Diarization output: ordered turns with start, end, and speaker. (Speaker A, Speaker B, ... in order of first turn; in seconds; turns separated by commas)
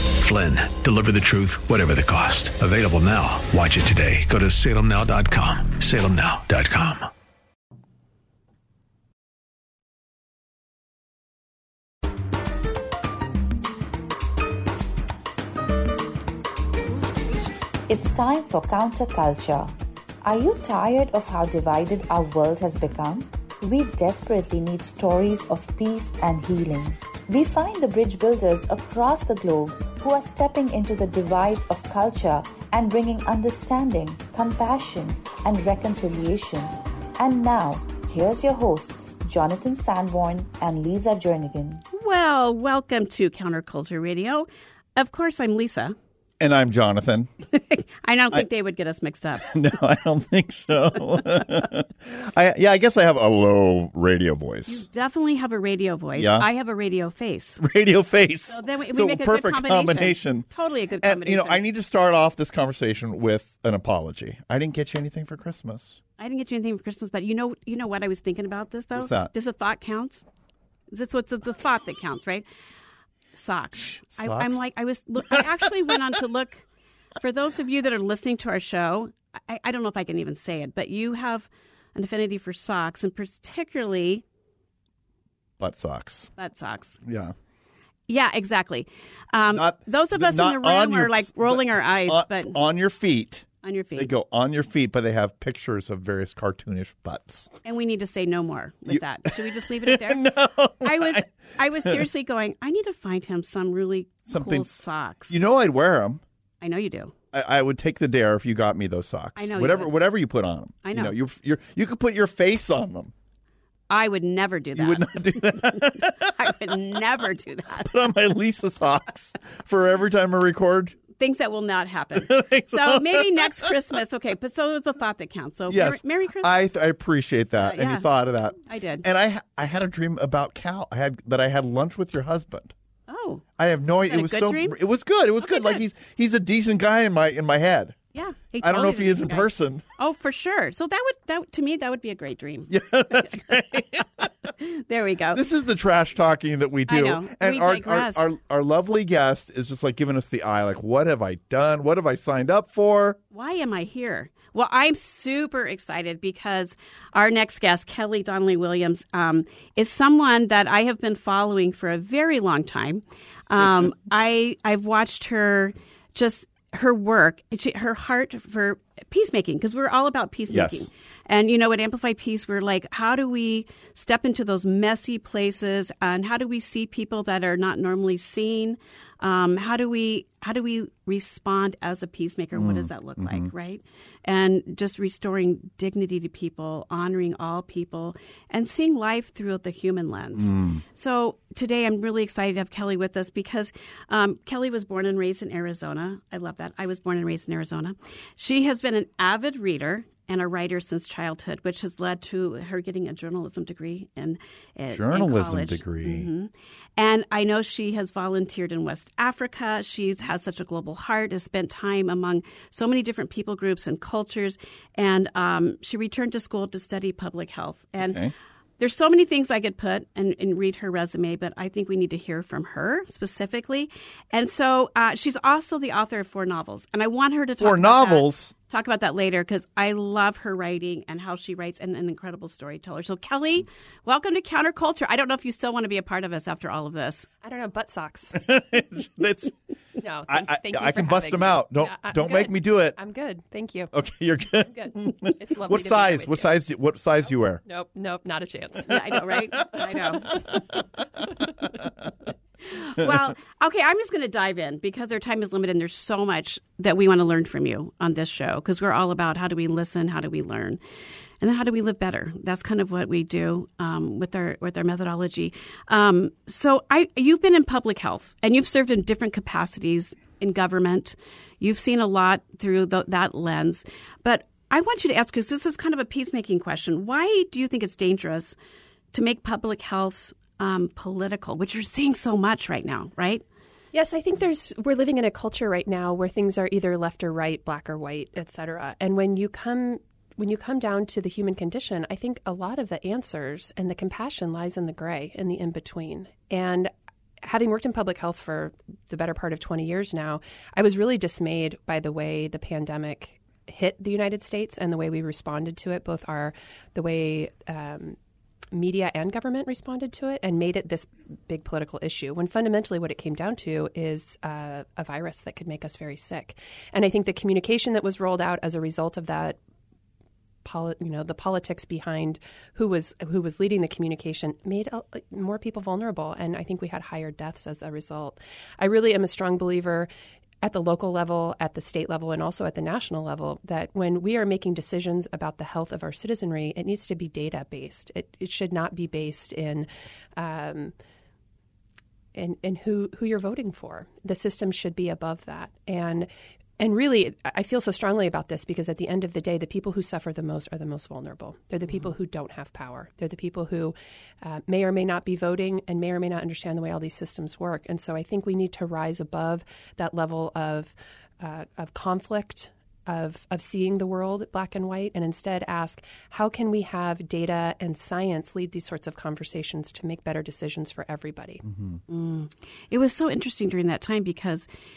Speaker A: 0.2-7.1, Speaker B: 17.9-41.8, Speaker C: 41.9-46.0, Speaker D: 46.4-47.3, Speaker C: 47.5-49.5, Speaker D: 49.4-54.9, Speaker C: 54.7-57.6, Speaker D: 56.1-56.5, Speaker D: 57.6-60.5, Speaker C: 58.5-61.6, Speaker D: 61.0-66.0, Speaker C: 66.2-70.3, Speaker D: 68.9-69.3, Speaker C: 70.9-72.5, Speaker C: 73.3-76.7, Speaker D: 73.8-74.6, Speaker C: 77.2-84.2, Speaker D: 85.6-86.3, Speaker C: 86.4-87.0, Speaker D: 87.0-87.3, Speaker C: 88.1-92.6, Speaker D: 89.5-97.5, Speaker C: 93.6-94.1, Speaker C: 97.6-100.3, Speaker D: 98.9-101.3, Speaker C: 100.8-105.4, Speaker D: 104.3-104.7, Speaker D: 105.3-106.2, Speaker C: 106.6-107.1, Speaker D: 107.3-113.1, Speaker C: 109.4-110.0, Speaker C: 110.8-111.2, Speaker C: 113.9-118.1, Speaker D: 114.8-116.5, Speaker D: 117.8-121.0, Speaker C: 121.2-126.6, Speaker D: 122.2-123.7, Speaker D: 125.7-132.7, Speaker C: 127.6-128.1, Speaker C: 128.6-129.1, Speaker C: 133.1-133.4, Speaker D: 133.6-138.0, Speaker C: 134.0-134.8, Speaker C: 135.4-135.8, Speaker C: 138.1-143.5, Speaker D: 138.6-139.8, Speaker D: 142.7-144.3, Speaker C: 144.4-145.4, Speaker D: 145.3-153.2, Speaker C: 146.9-148.3, Speaker C: 153.3-218.2, Speaker D: 170.5-170.9, Speaker D: 182.5-183.5, Speaker D: 190.4-190.8, Speaker D: 204.9-206.3, Speaker D: 218.0-218.3, Speaker C: 218.8-237.3, Speaker D: 227.6-228.5, Speaker E: 237.4-238.4, Speaker D: 238.3-239.6, Speaker E: 240.0-243.9, Speaker D: 240.3-243.0, Speaker D: 243.9-247.6, Speaker E: 244.6-246.6, Speaker E: 247.7-249.2, Speaker C: 248.9-250.5, Speaker D: 249.3-250.8, Speaker C: 252.7-260.8, Speaker C: 261.4-278.6, Speaker C: 279.1-283.4, Speaker E: 283.9-296.9, Speaker E: 297.4-308.2, Speaker E: 308.7-319.6, Speaker E: 320.6-330.1, Speaker E: 330.6-340.9, Speaker E: 342.4-371.6, Speaker D: 371.7-372.0, Speaker C: 372.1-374.7